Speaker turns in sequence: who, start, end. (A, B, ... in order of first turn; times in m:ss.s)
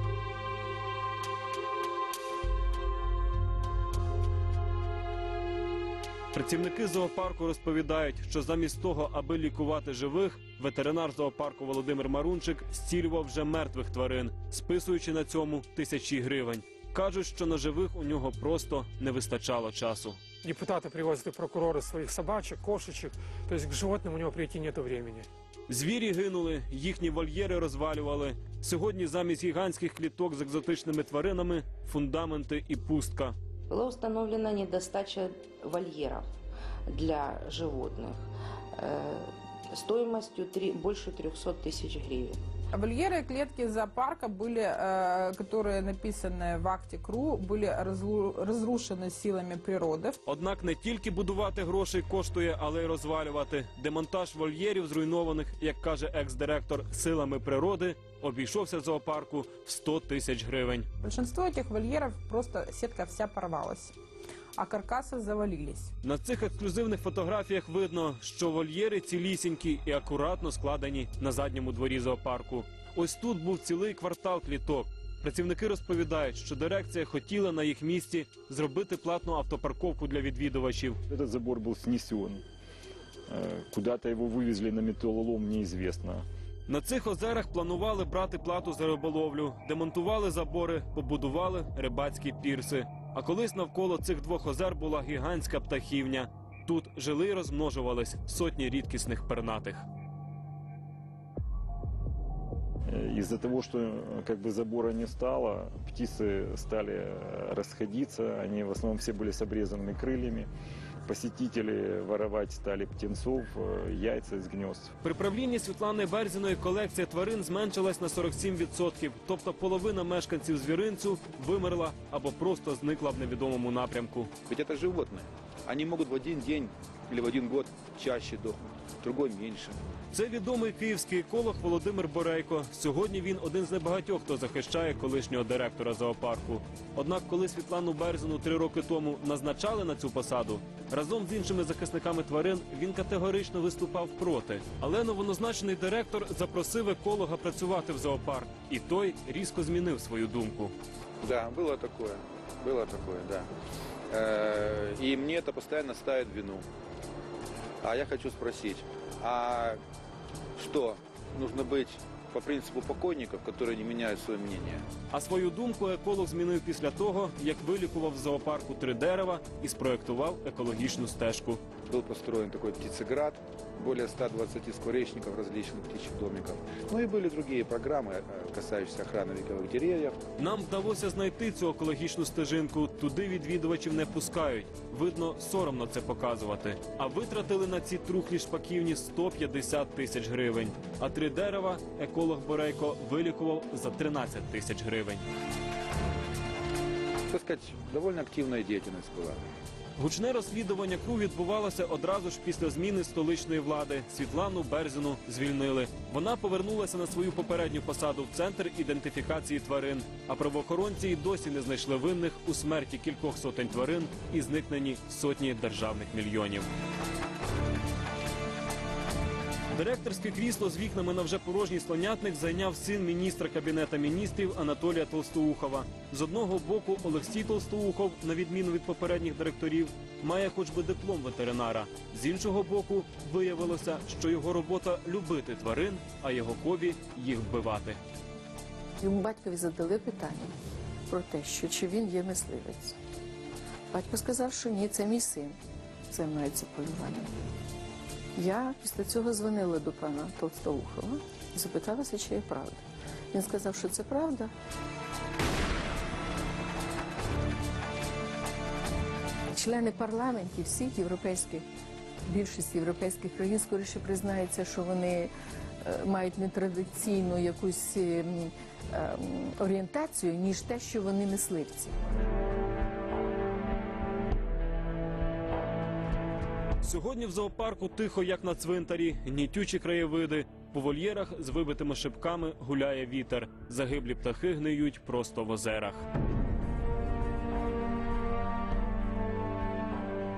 0:06.3-0:20.2 A
0:20.4-0:25.3 B
0:25.7-0:33.4 A
0:33.7-0:36.3 C
0:36.9-0:42.4 C
0:42.7-0:50.2 D
0:50.3-1:00.9 A
1:01.0-1:04.0 D
1:04.6-1:05.9 D
1:06.0-1:21.0 A
1:21.1-1:22.4 E
1:23.3-1:26.3 E
1:26.7-1:39.8 A
1:42.9-1:50.5 E
1:51.1-1:54.9 E
1:55.0-2:04.3 A
2:04.5-2:09.8 F
2:10.1-2:30.7 A
2:31.2-2:33.5 F
2:34.1-2:36.7 F
2:37.8-2:39.8 F
2:40.6-2:44.8 F
2:45.1-2:51.6 A
2:51.9-3:00.2 F
3:00.4-3:15.2 A
3:17.3-3:19.4 F
3:20.0-3:36.7 A
3:39.7-3:58.0 A
3:59.0-4:00.5 G
4:01.1-4:03.0 G
4:03.9-4:05.6 G
4:06.1-4:07.3 G
4:08.4-4:14.5 G
4:19.5-4:21.6 G
4:22.2-4:32.0 G
4:36.8-4:46.1 A